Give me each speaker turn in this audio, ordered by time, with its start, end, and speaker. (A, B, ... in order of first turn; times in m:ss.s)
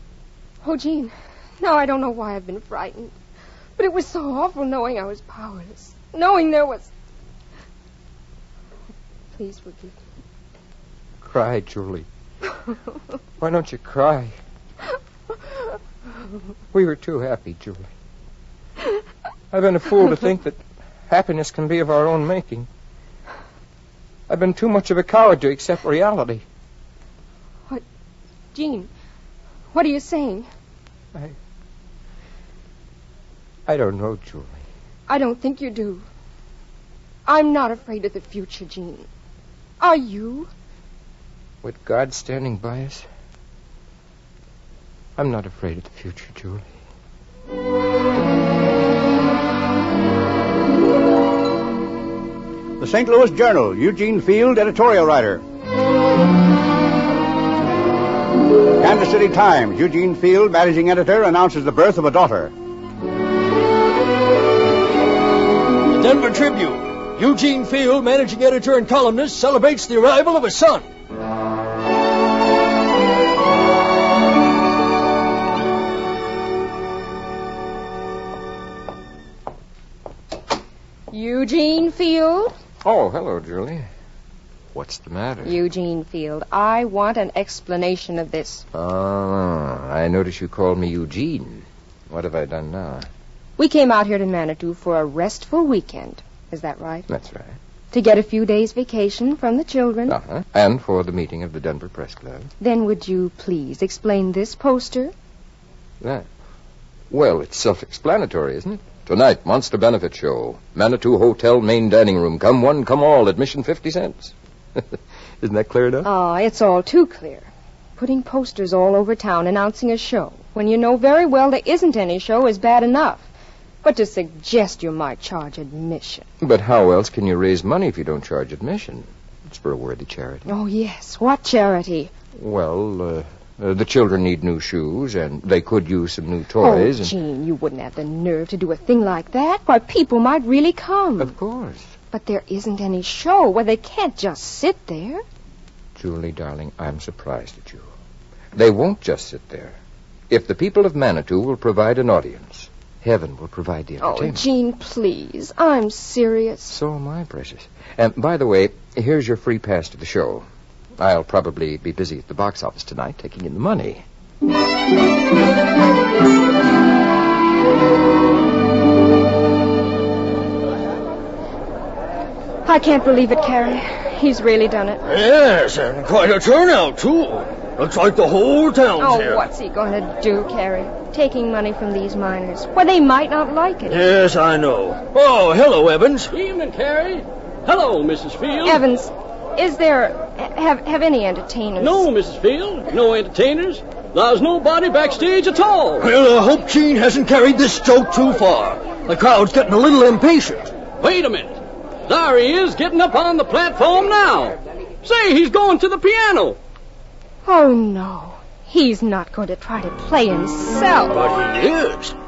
0:00.6-0:03.1 A
0:03.8-0:06.9 A
0:09.3-0:10.0 A
0:11.2-0:12.1 B
0:13.4-0:14.4 B
0:16.7-0:17.9 B
0:19.5-0:22.7 B
0:24.3-0:26.4 B
0:28.5-0:28.9 A
0:29.7-0:30.5 A
0:33.7-0:34.6 B
0:35.1-0:36.1 A
0:37.3-0:39.1 A
0:39.8-0:40.5 A
0:41.6-0:43.1 B
0:45.2-0:46.7 B
0:52.8-0:55.4 C
0:58.8-1:02.5 C
1:05.9-1:10.9 D
1:21.1-1:22.5 A
1:22.8-1:23.9 B
1:24.7-1:25.6 B
1:25.4-1:28.6 A
1:28.7-1:33.1 B
1:33.6-1:37.1 A
1:37.1-1:37.6 B
1:37.9-1:40.2 A
1:40.1-1:42.5 B
1:42.6-1:45.1 A
1:46.0-1:46.3 B
1:47.1-1:56.1 B
1:56.0-2:03.3 A
2:03.8-2:06.3 A
2:06.4-2:10.5 B
2:10.5-2:12.1 A
2:12.3-2:17.1 B
2:16.6-2:21.3 A
2:21.2-2:21.9 B
2:22.1-2:25.2 A
2:26.0-2:27.9 B
2:28.5-2:29.8 B
2:30.3-2:34.4 B
2:34.0-2:36.8 A
2:36.7-2:40.5 B
2:41.0-2:44.0 B
2:52.6-2:55.0 A
2:55.0-2:59.4 D
2:59.0-3:04.0 A
3:03.9-3:06.3 D
3:06.3-3:08.8 E
3:08.6-3:12.1 A
3:11.8-3:16.0 E
3:16.0-3:20.7 D
3:21.0-3:26.6 E
3:27.4-3:31.2 A
3:31.1-3:32.1 D